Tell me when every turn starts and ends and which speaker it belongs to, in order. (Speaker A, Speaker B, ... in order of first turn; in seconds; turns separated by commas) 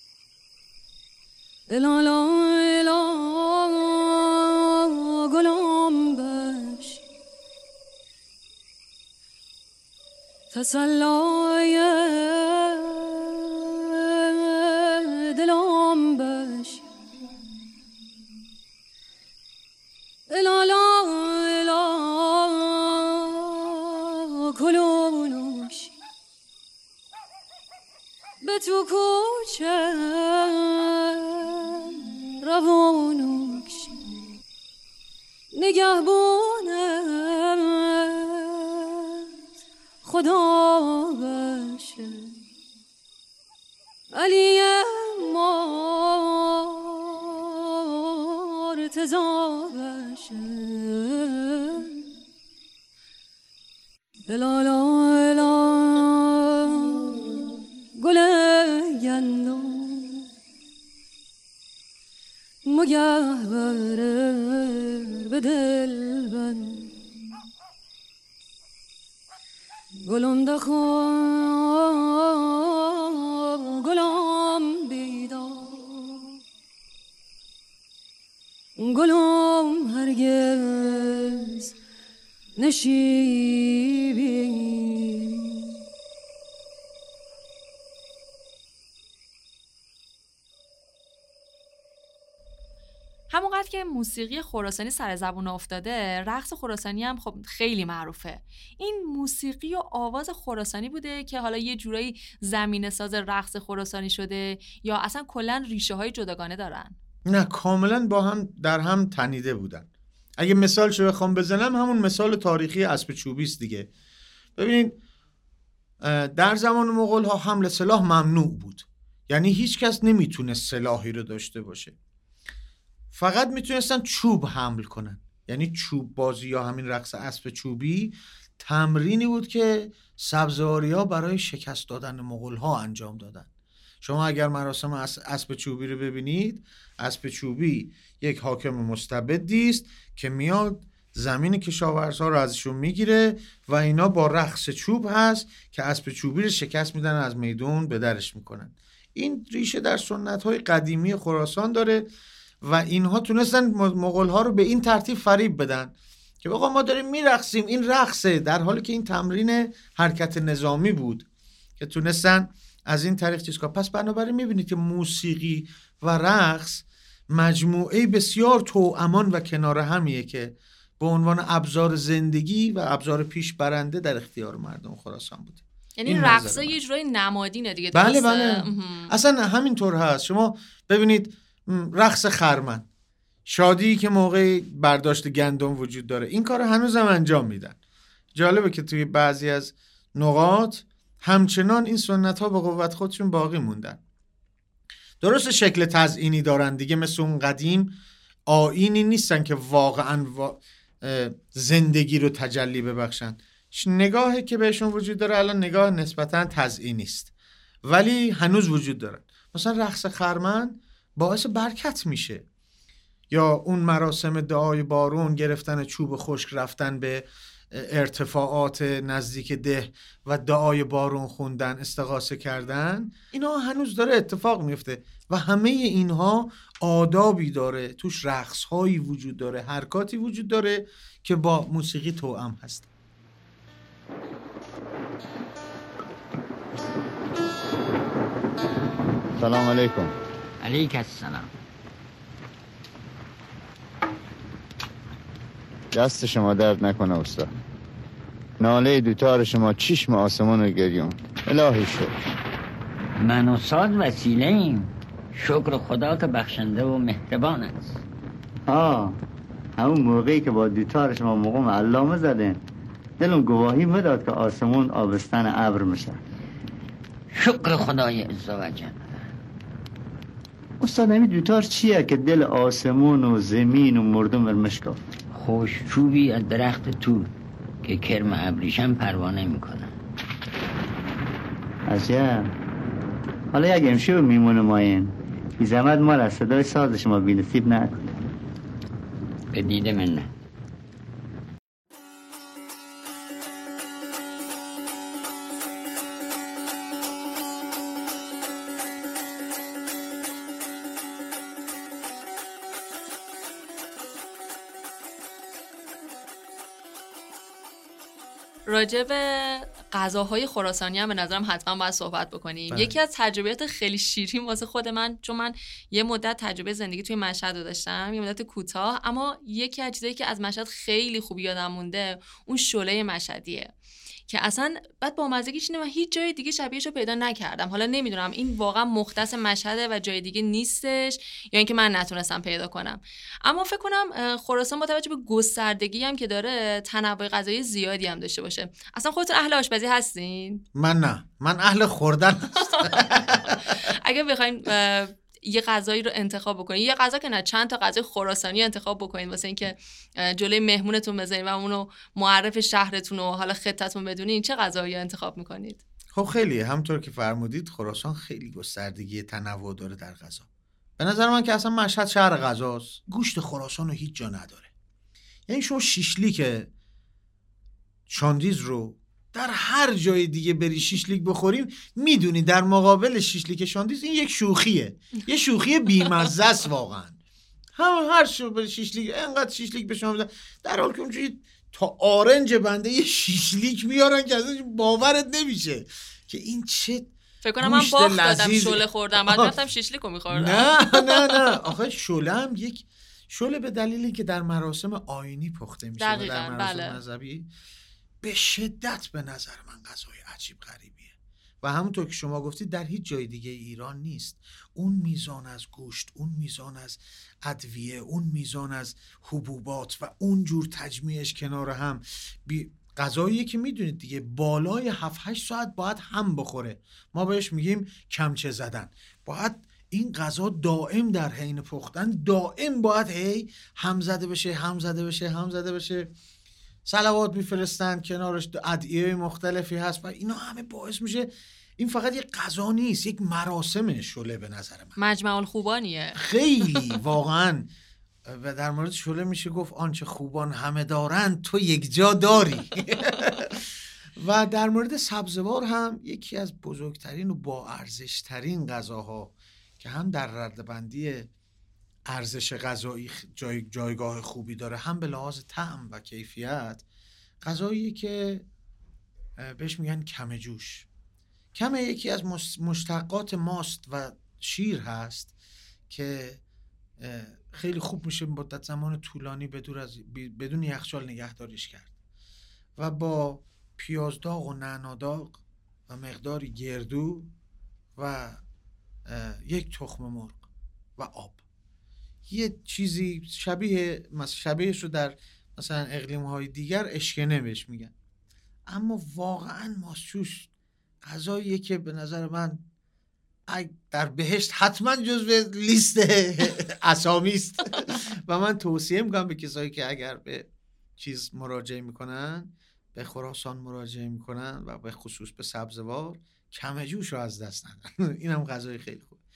Speaker A: 1.7-7.0, Speaker A: 10.5-16.9, Speaker A: 20.3-25.9, Speaker A: 28.4-34.2, Speaker A: 35.5-39.3, Speaker A: 40.0-42.3, Speaker A: 44.1-52.1, Speaker A: 54.3-60.3, Speaker A: 62.7-67.0, Speaker A: 70.0-76.4, Speaker A: 78.8-81.7, Speaker A: 82.6-85.8, Speaker B: 93.3-107.0, Speaker C: 107.3-113.9, Speaker C: 114.5-115.0, Speaker C: 116.0-121.9, Speaker C: 123.1-133.5, Speaker C: 134.0-152.1, Speaker C: 152.6-161.2, Speaker C: 161.8-176.7, Speaker B: 176.0-179.1, Speaker C: 177.9-182.9, Speaker C: 183.4-187.8, Speaker C: 188.3-194.0, Speaker C: 195.2-197.9, Speaker C: 198.5-207.3, Speaker C: 207.8-212.4, Speaker C: 213.3-232.9, Speaker D: 239.3-240.1, Speaker E: 240.6-241.5, Speaker D: 245.9-247.5, Speaker D: 248.6-252.2, Speaker E: 253.2-258.0, Speaker F: 258.7-259.2, Speaker F: 259.8-262.6, Speaker F: 263.2-266.2, Speaker E: 267.3-269.1, Speaker F: 270.8-275.0, Speaker E: 275.3-277.3, Speaker E: 277.8-279.9, Speaker F: 281.9-282.5, Speaker F: 283.5-288.0, Speaker E: 289.5-290.3, Speaker B: 308.7-323.7, Speaker C: 312.7-313.0, Speaker B: 324.3-340.6, Speaker C: 340.7-343.8, Speaker B: 342.7-355.8, Speaker C: 356.1-360.5, Speaker C: 361.0-364.7, Speaker C: 365.5-366.7, Speaker C: 368.1-377.2, Speaker C: 377.7-389.5, Speaker B: 387.4-391.6, Speaker C: 390.3-397.5, Speaker B: 396.0-397.0, Speaker C: 398.2-426.1, Speaker C: 426.8-434.9, Speaker B: 435.0-436.9, Speaker C: 436.2-437.7, Speaker C: 438.2-451.3, Speaker C: 452.1-456.8, Speaker C: 457.4-458.4, Speaker C: 459.4-460.9, Speaker C: 461.5-465.3, Speaker C: 465.9-466.4, Speaker C: 467.0-471.9, Speaker C: 472.8-477.3, Speaker C: 477.9-478.4, Speaker C: 479.1-481.4, Speaker C: 482.3-487.9, Speaker C: 488.7-490.5, Speaker C: 491.0-492.6, Speaker C: 493.5-509.2